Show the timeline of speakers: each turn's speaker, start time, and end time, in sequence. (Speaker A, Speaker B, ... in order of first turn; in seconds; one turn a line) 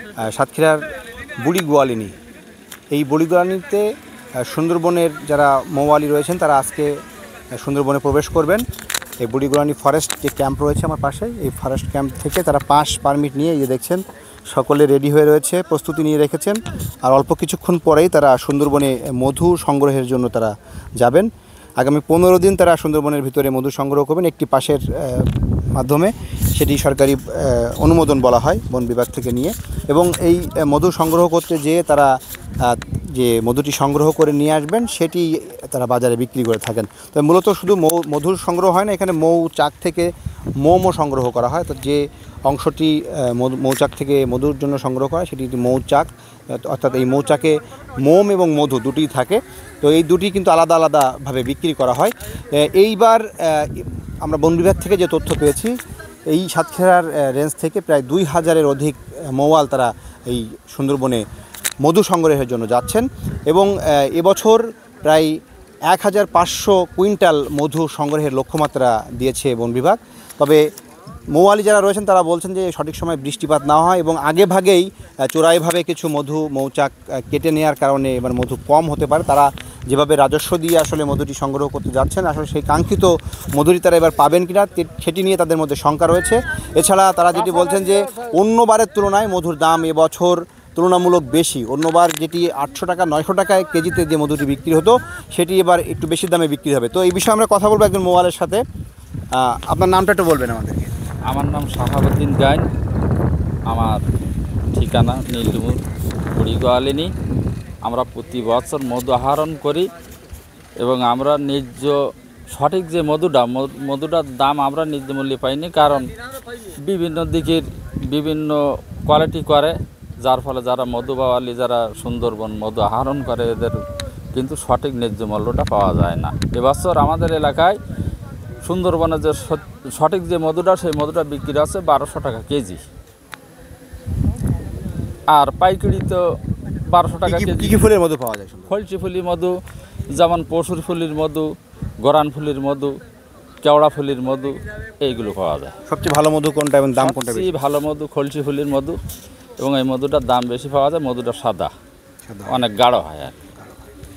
Speaker A: 0.2-0.8
Speaker A: 1.4-2.1
Speaker A: 2.9-7.0
Speaker A: 7.5-8.6
Speaker A: 9.2-21.3
Speaker A: 21.8-55.8
Speaker A: 56.3-61.2
Speaker A: 61.8-65.4
Speaker A: 65.9-70.6
Speaker A: 71.3-98.6
Speaker A: 99.3-100.9
Speaker B: 101.3-102.6
Speaker B: 103.7-104.0
Speaker B: 104.7-105.8
Speaker B: 106.3-107.1
Speaker B: 107.8-109.9
Speaker B: 110.8-112.0
Speaker B: 112.5-116.1
Speaker B: 116.8-123.8
Speaker B: 124.3-127.8
Speaker B: 128.6-132.8
Speaker B: 135.3-136.2
Speaker B: 136.9-137.8
Speaker A: 137.3-138.7
Speaker B: 138.7-139.5
Speaker B: 140.1-141.5
Speaker B: 142.0-143.0
Speaker B: 143.6-145.7
Speaker A: 145.9-147.5
Speaker B: 147.0-149.0
Speaker B: 149.6-151.7
Speaker A: 152.2-152.6
Speaker B: 152.5-153.4